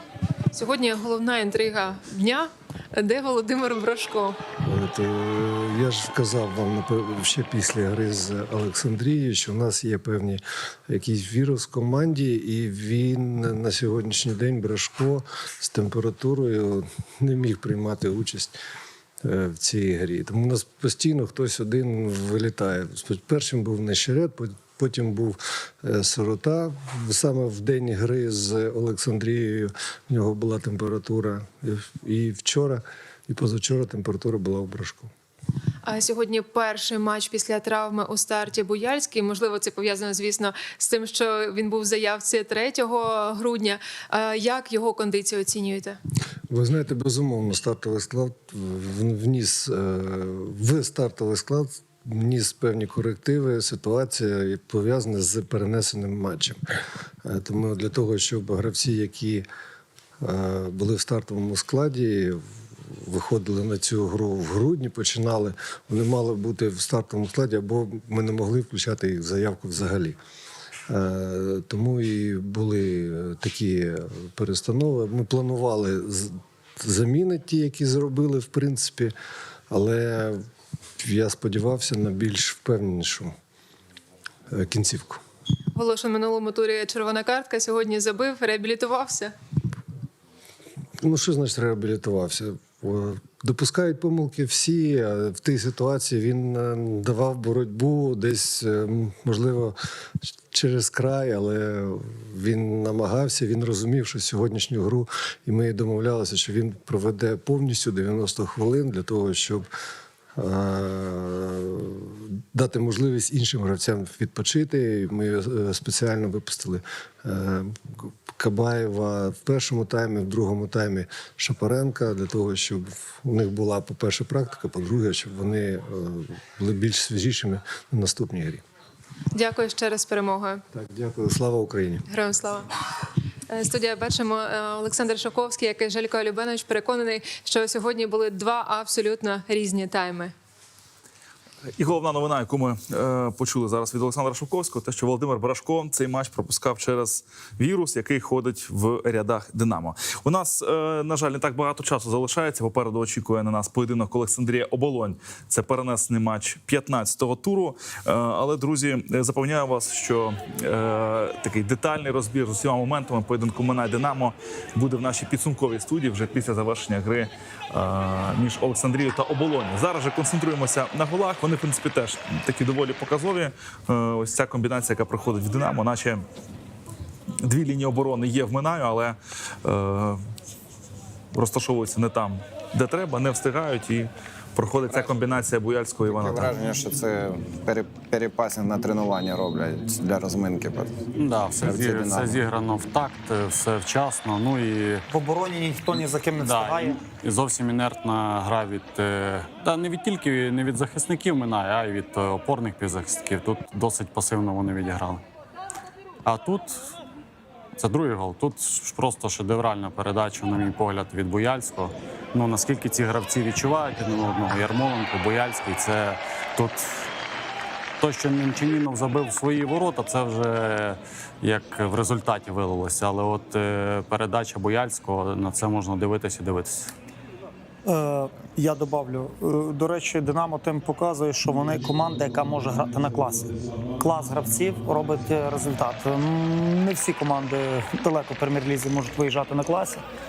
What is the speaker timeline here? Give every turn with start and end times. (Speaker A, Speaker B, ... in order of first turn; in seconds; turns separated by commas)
Speaker A: 0.5-4.4, Speaker B: 4.6-18.5, Speaker B: 19.2-35.1, Speaker A: 35.8-46.0, Speaker B: 46.5-56.6, Speaker B: 57.2-59.5, Speaker B: 60.2-70.2, Speaker B: 70.9-79.1, Speaker B: 79.7-80.4, Speaker B: 81.0-83.3, Speaker B: 84.5-85.2, Speaker A: 85.7-89.3, Speaker B: 91.0-109.7, Speaker B: 110.3-128.6, Speaker A: 129.3-130.6, Speaker B: 130.7-132.1, Speaker A: 132.1-132.7, Speaker A: 133.5-140.3, Speaker C: 141.8-176.2, Speaker C: 177.4-180.2, Speaker C: 181.3-186.5, Speaker D: 184.9-185.2, Speaker D: 186.1-191.0, Speaker E: 191.2-195.1, Speaker D: 191.6-192.4, Speaker F: 195.1-197.0, Speaker E: 196.4-205.2, Speaker E: 206.2-206.9, Speaker E: 207.8-217.0, Speaker E: 218.0-226.9, Speaker F: 227.8-240.0